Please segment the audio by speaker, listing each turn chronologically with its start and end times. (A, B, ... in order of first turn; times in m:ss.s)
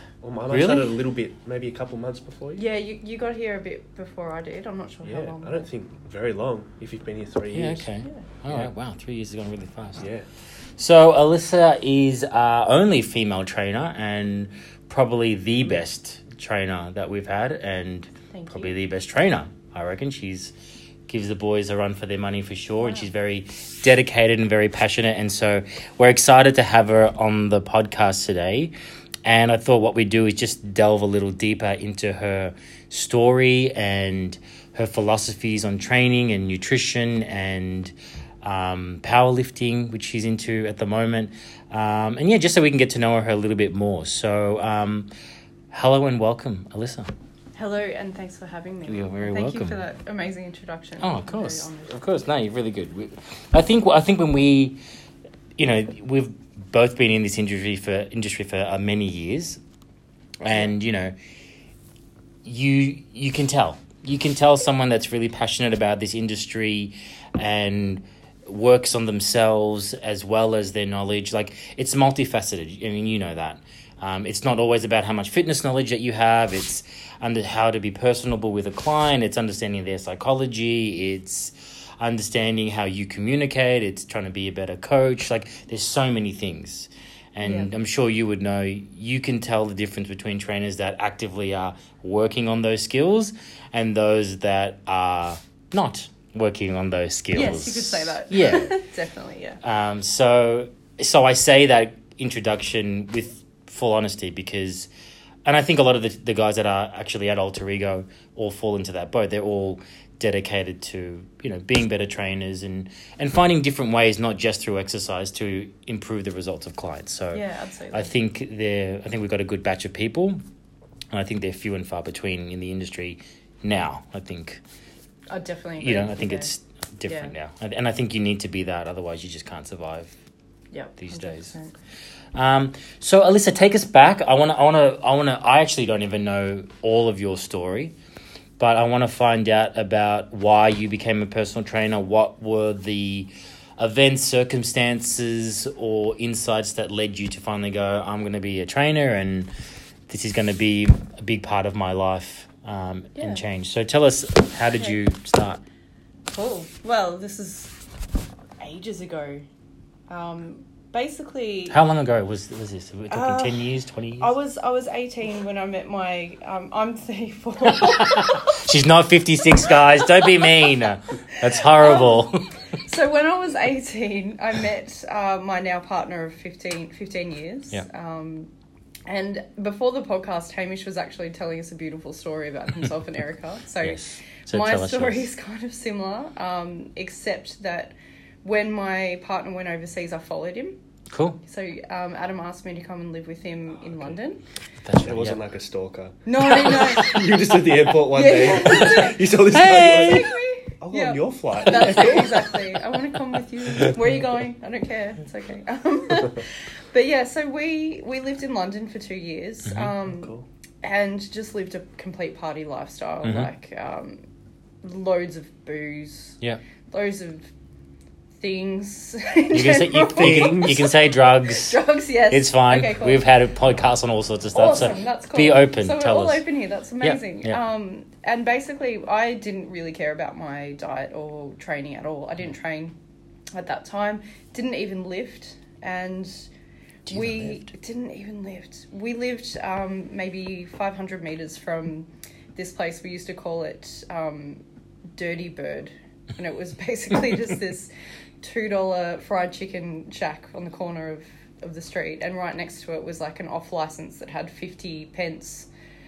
0:00.2-0:02.6 A
0:00.5-0:00.9 B
0:02.6-0:05.7 C
0:05.0-0:07.9 A
0:07.5-0:10.1 B
0:10.0-0:10.3 A
0:10.8-0:20.5 B
0:18.3-0:18.7 C
0:21.1-0:28.7 B
0:22.8-0:23.1 C
0:29.2-0:45.1 B
0:45.7-0:47.1 B
0:47.5-0:52.0 C
0:48.9-0:49.8 B
0:51.0-0:54.8 B
0:55.6-0:59.6 B
1:00.4-1:01.2 B
1:00.4-1:00.7 C
1:02.4-1:38.7 B
1:27.4-1:27.7 C
1:37.3-1:39.6 C
1:39.6-1:44.9 B
1:45.4-2:00.4 B
1:57.3-1:58.1 C
2:01.1-2:04.6 B
2:05.3-2:06.5 C
2:05.8-2:10.1 B
2:07.0-2:07.3 C
2:10.7-2:11.8 C
2:11.0-2:11.5 B
2:12.3-2:18.0 B
2:18.6-2:29.5 B
2:30.1-2:35.6 B
2:33.2-2:33.4 C
2:34.7-2:35.0 C
2:36.3-2:37.7 C
2:38.6-2:39.4 C
2:40.1-2:41.8 C
2:41.7-2:44.3 B
2:43.1-2:48.6 C
2:47.7-2:52.5 B
2:49.7-2:50.6 C
2:51.4-2:52.3 C
2:52.8-2:58.5 C
2:59.1-3:10.8 C
3:03.8-3:05.3 B
3:11.1-3:11.4 B
3:11.4-3:14.4 C
3:14.8-3:15.4 B
3:15.0-3:22.9 A
3:16.2-3:17.2 C
3:18.1-3:34.2 C
3:19.5-3:20.3 B
3:29.6-3:29.9 B
3:30.1-3:30.4 A
3:33.2-3:33.5 B
3:34.8-3:36.4 C
3:36.9-3:37.5 C
3:38.4-3:43.2 C
3:39.5-3:41.8 B
3:40.2-3:40.7 A
3:42.3-3:46.4 B
3:44.5-3:52.9 C
3:47.0-3:47.6 B
3:53.5-3:56.5 C
3:57.1-3:57.6 B
3:57.1-4:04.6 C
4:05.1-4:15.7 C